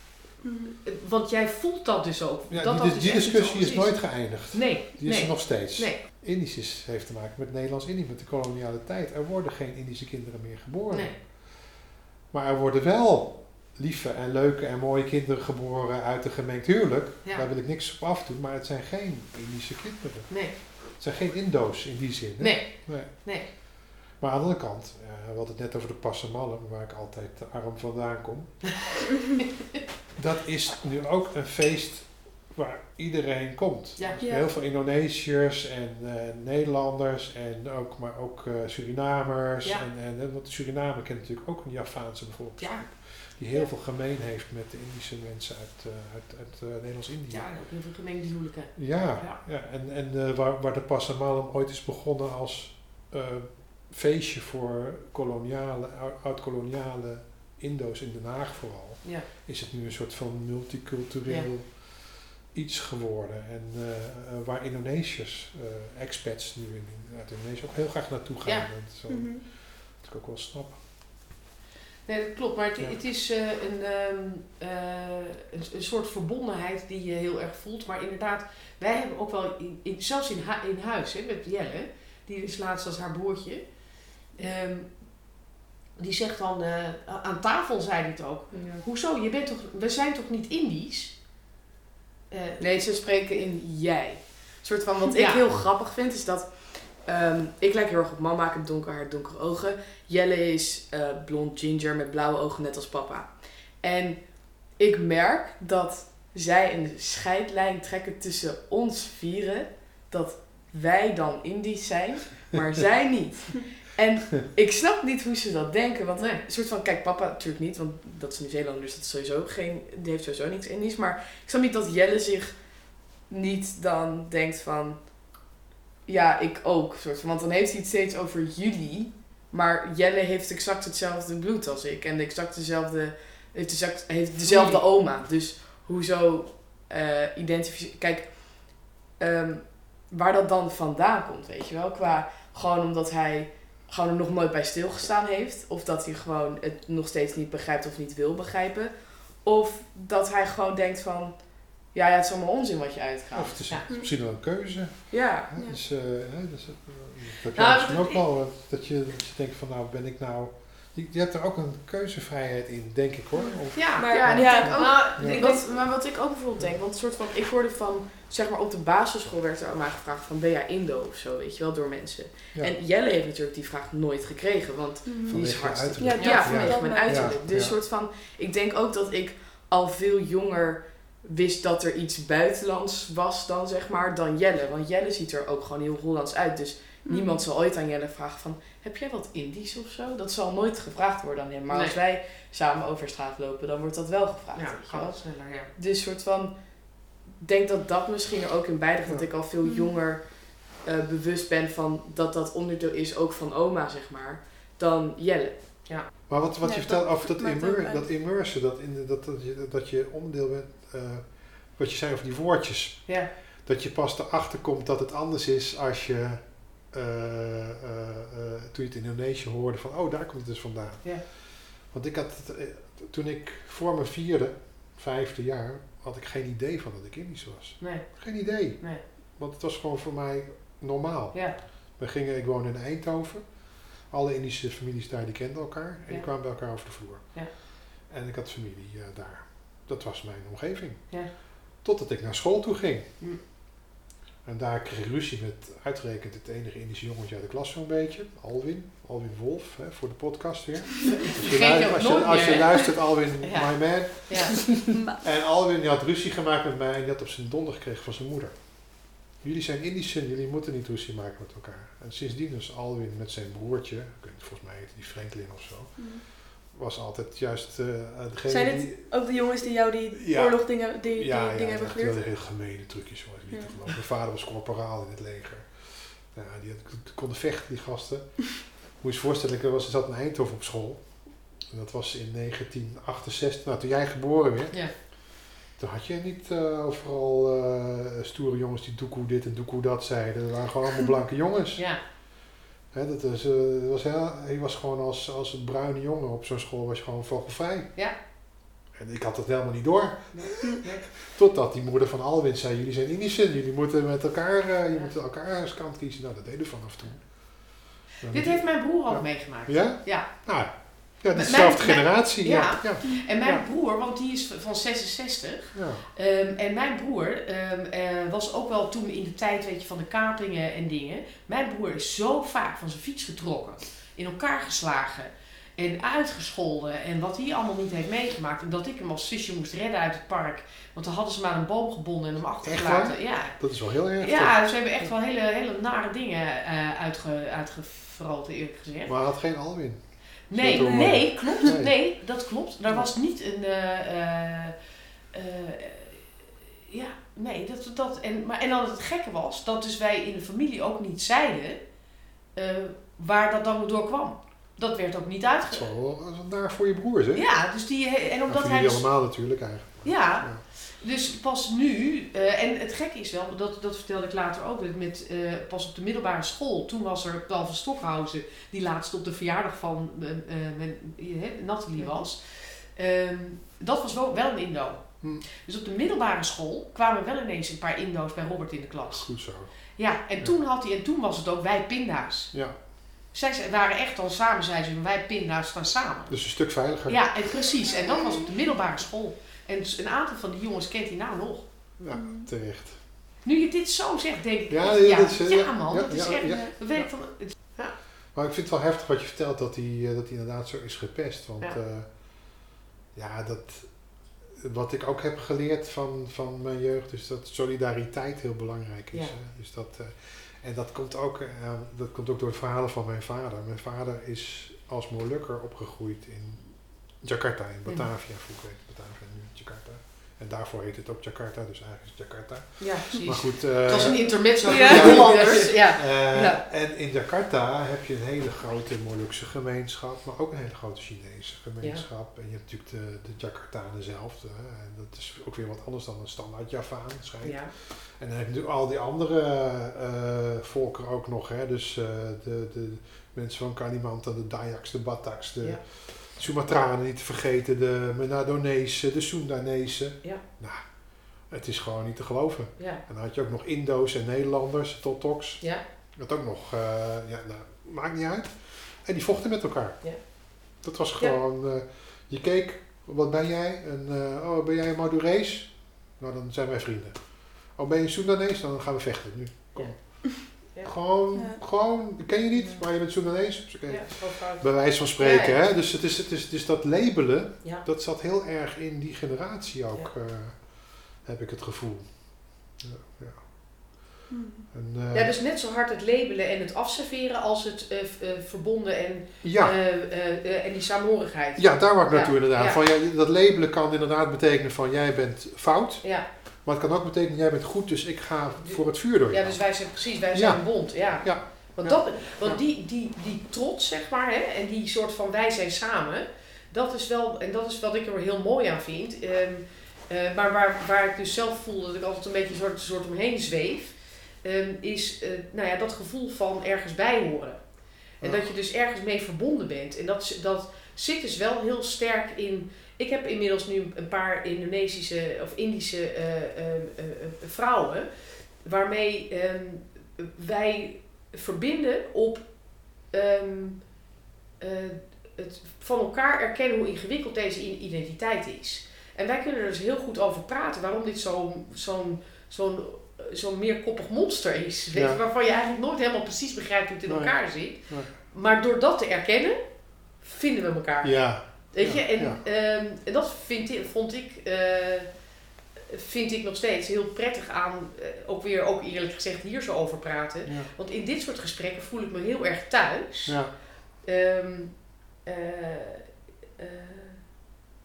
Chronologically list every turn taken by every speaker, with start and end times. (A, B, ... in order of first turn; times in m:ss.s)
0:00.4-0:00.8 A
0:00.8-0:06.0 B
0:02.5-0:23.1 C
0:10.9-0:11.2 B
0:20.3-0:20.6 B
0:22.4-0:23.5 B
0:24.1-0:28.8 C
0:30.2-0:47.5 C
0:34.0-0:34.2 B
0:34.2-0:34.4 A
0:42.6-0:42.9 B
0:47.3-0:49.4 B
0:48.8-1:10.8 C
1:08.4-1:08.7 B
1:09.1-1:09.4 A
1:12.1-1:23.6 B
1:24.3-1:25.3 B
1:26.0-1:31.2 B
1:28.5-1:28.8 D
1:32.3-1:32.7 B
1:32.6-2:02.6 D
1:35.1-1:35.5 B
1:56.2-1:56.4 B
2:03.3-2:05.1 D
2:06.1-2:33.8 D
2:14.4-2:14.8 B
2:33.4-2:45.4 C
2:35.1-2:35.5 D
2:37.5-2:38.2 B
2:43.5-2:45.6 A
2:43.7-2:45.6 B
2:44.1-3:15.2 D
2:55.1-2:55.4 A
2:55.3-2:57.8 C
2:56.0-2:57.4 A
2:56.2-2:56.5 B
3:11.7-3:12.0 B
3:14.6-3:15.7 B
3:15.8-3:25.6 D
3:19.6-3:19.9 A
3:26.3-3:57.4 C
3:26.6-3:28.0 A
3:47.8-3:49.0 B
3:51.3-3:51.6 B
3:56.1-3:56.4 B
3:57.9-4:01.2 C
4:01.8-4:03.1 C
4:04.4-4:29.1 C
4:11.1-4:14.8 B
4:14.9-4:15.2 A
4:26.0-4:26.2 A
4:28.5-4:32.2 A
4:30.1-4:51.8 C
4:33.5-4:33.8 A
4:52.9-4:57.9 C
4:58.9-5:13.6 C
5:00.3-5:01.1 B
5:08.3-5:10.5 B
5:11.1-5:39.2 B
5:15.7-5:16.1 C
5:32.6-5:34.6 C
5:39.1-5:42.0 C
5:40.5-5:44.8 B
5:40.8-5:41.7 A
5:45.3-5:46.3 B
5:46.9-5:51.8 B
5:52.6-5:55.8 B
5:55.7-5:57.5 C
5:57.3-6:19.4 B
5:58.5-6:00.6 C
6:19.1-6:19.8 C
6:20.0-6:22.6 B
6:22.5-6:22.8 C
6:23.3-6:31.7 B
6:26.3-6:27.2 C
6:32.0-6:33.0 C
6:32.1-6:32.5 A
6:33.4-6:38.0 B
6:34.7-6:37.1 C
6:36.3-6:36.7 A
6:38.3-7:40.1 C
7:02.8-7:06.6 B
7:04.1-7:05.2 A
7:17.4-7:17.7 B
7:40.0-7:41.4 B
7:40.8-8:03.7 C
7:49.8-7:50.9 B
7:51.4-7:51.6 A
7:53.9-7:55.6 B
8:04.3-8:04.7 A
8:04.7-8:05.3 C
8:05.1-8:12.8 B
8:09.4-8:09.8 C
8:11.6-8:22.6 C
8:18.6-8:48.1 B
8:48.6-8:54.0 B
8:54.6-9:15.2 B
9:04.9-9:05.2 C
9:07.1-9:07.4 C
9:11.0-9:12.4 C
9:15.8-9:23.5 B
9:20.5-9:20.7 C
9:23.3-9:23.5 C
9:24.0-9:27.2 B